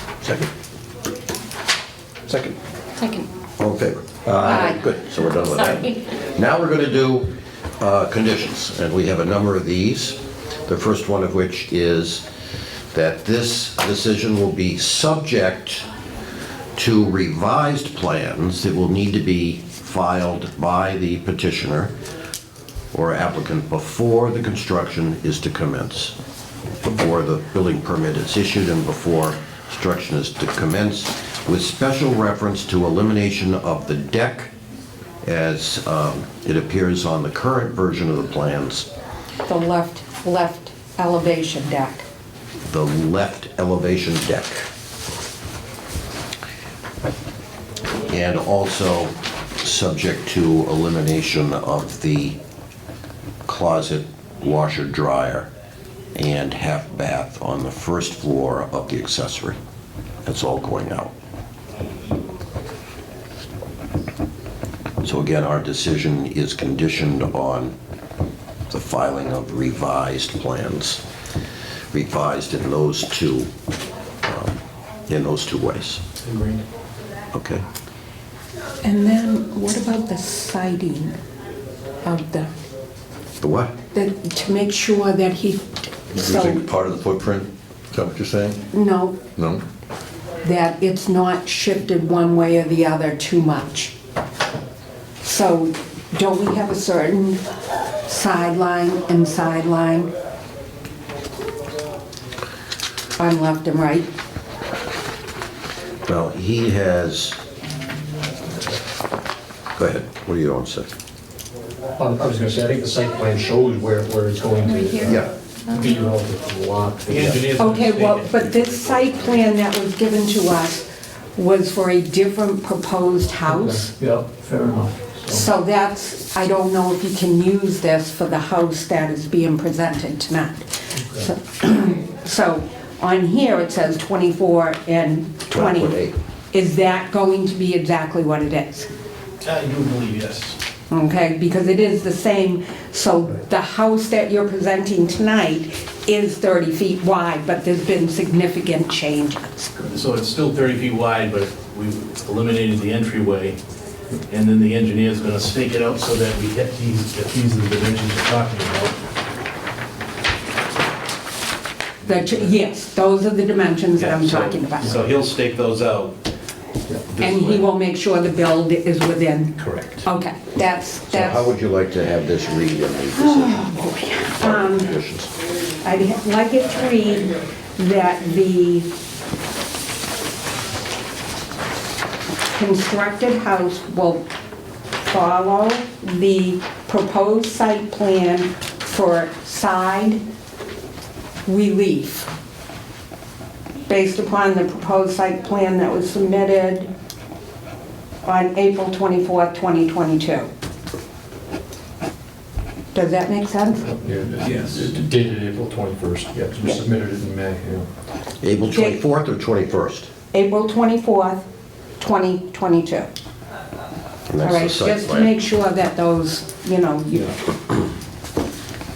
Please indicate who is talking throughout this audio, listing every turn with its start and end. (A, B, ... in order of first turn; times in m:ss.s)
0:00.2-0:00.5 A
0:03.0-0:03.3 B
0:03.6-0:12.2 A
0:12.9-0:15.9 A
0:16.8-0:21.9 A
0:22.9-0:26.2 A
0:26.8-0:34.5 A
0:35.2-0:38.9 A
0:39.5-0:42.0 B
0:42.7-0:44.7 A
0:48.1-0:52.4 A
0:53.5-0:55.5 A
0:56.2-0:59.6 A
1:00.2-1:01.1 A
1:05.0-1:07.8 A
1:08.7-1:11.0 A
1:11.9-1:13.5 A
1:14.2-1:16.0 A
1:16.2-1:16.6 C
1:17.3-1:17.6 A
1:18.8-1:21.2 B
1:22.0-1:22.5 B
1:23.4-1:23.7 A
1:23.9-1:26.6 B
1:26.1-1:28.6 D
1:28.7-1:29.3 B
1:29.4-1:29.6 D
1:30.4-1:33.9 B
1:35.2-1:37.4 B
1:38.1-1:40.1 B
1:43.2-1:44.1 B
1:46.1-1:47.4 A
1:49.8-1:50.9 A
1:52.0-1:57.5 E
1:57.1-1:59.4 C
1:57.6-2:00.8 B
2:01.4-2:03.9 B
2:03.5-2:05.4 E
2:05.3-2:16.0 B
2:15.5-2:16.2 A
2:16.5-2:18.9 B
2:19.4-2:20.6 C
2:20.9-2:29.8 B
2:29.9-2:33.6 C
2:34.3-2:39.0 C
2:42.1-2:45.0 B
2:44.0-2:46.2 C
2:47.1-2:47.6 C
2:47.2-2:51.5 B
2:49.6-2:50.0 C
2:51.1-2:53.7 A
2:53.2-2:54.9 B
2:54.4-2:55.3 A
2:55.8-2:58.9 B
3:02.5-3:04.2 B
3:05.0-3:10.2 B
3:11.5-3:12.3 B
3:13.9-3:16.9 B
3:18.2-3:20.5 B
3:22.9-3:23.9 B
3:23.8-3:27.9 E
3:28.4-3:30.1 A
3:28.7-3:29.0 B
3:30.3-3:31.4 B
3:32.0-3:33.1 B
3:34.3-3:35.3 A
3:34.4-3:37.4 B